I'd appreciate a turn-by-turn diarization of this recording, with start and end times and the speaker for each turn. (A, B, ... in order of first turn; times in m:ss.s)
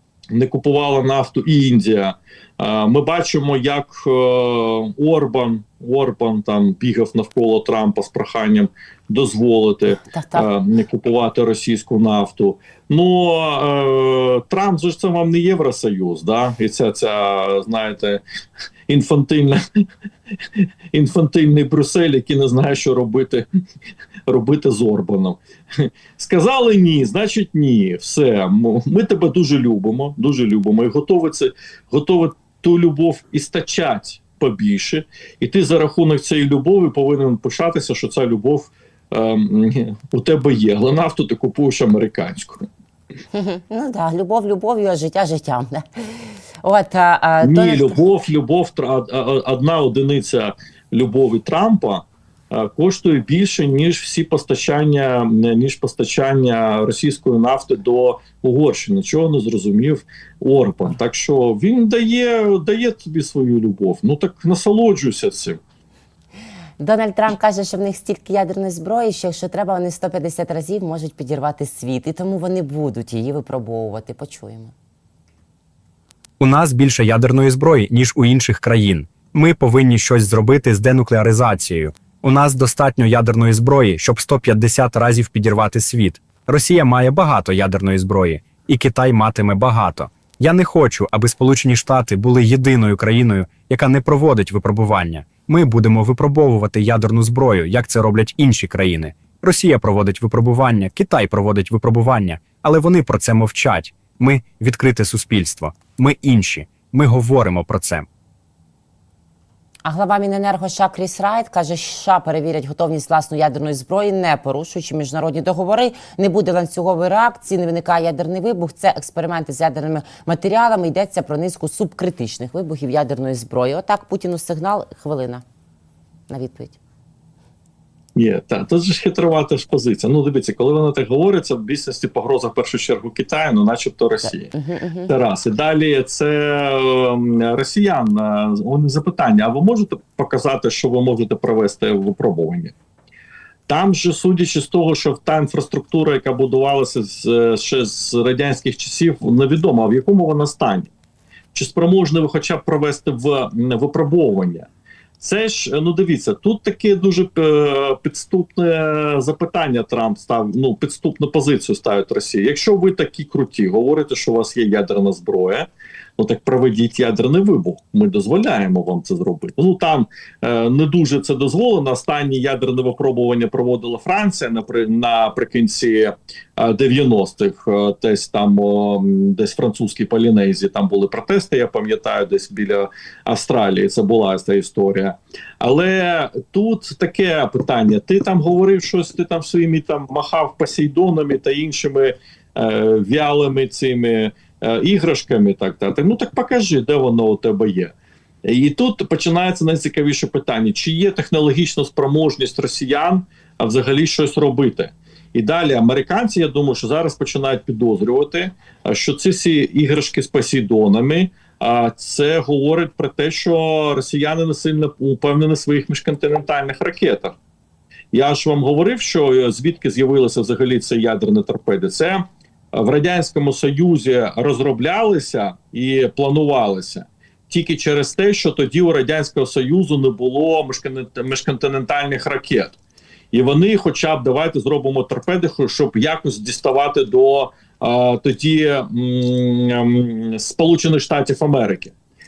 0:00.3-0:18.2 A
0:10.1-0:10.5 B
0:18.9-0:19.9 A
0:20.4-0:23.5 A
0:24.3-0:42.7 A
0:43.3-0:48.0 B
0:47.4-1:05.6 A
1:06.8-1:14.7 B
1:16.4-1:48.1 C
1:49.8-2:05.4 B
2:06.3-2:06.8 B
2:08.2-2:14.5 A
2:14.5-2:15.1 B
2:15.1-2:22.8 A
2:23.7-2:30.9 A
2:31.5-2:34.7 A
2:35.2-3:17.9 A
3:18.4-3:37.4 A
3:38.1-3:52.8 A
3:53.3-4:01.9 A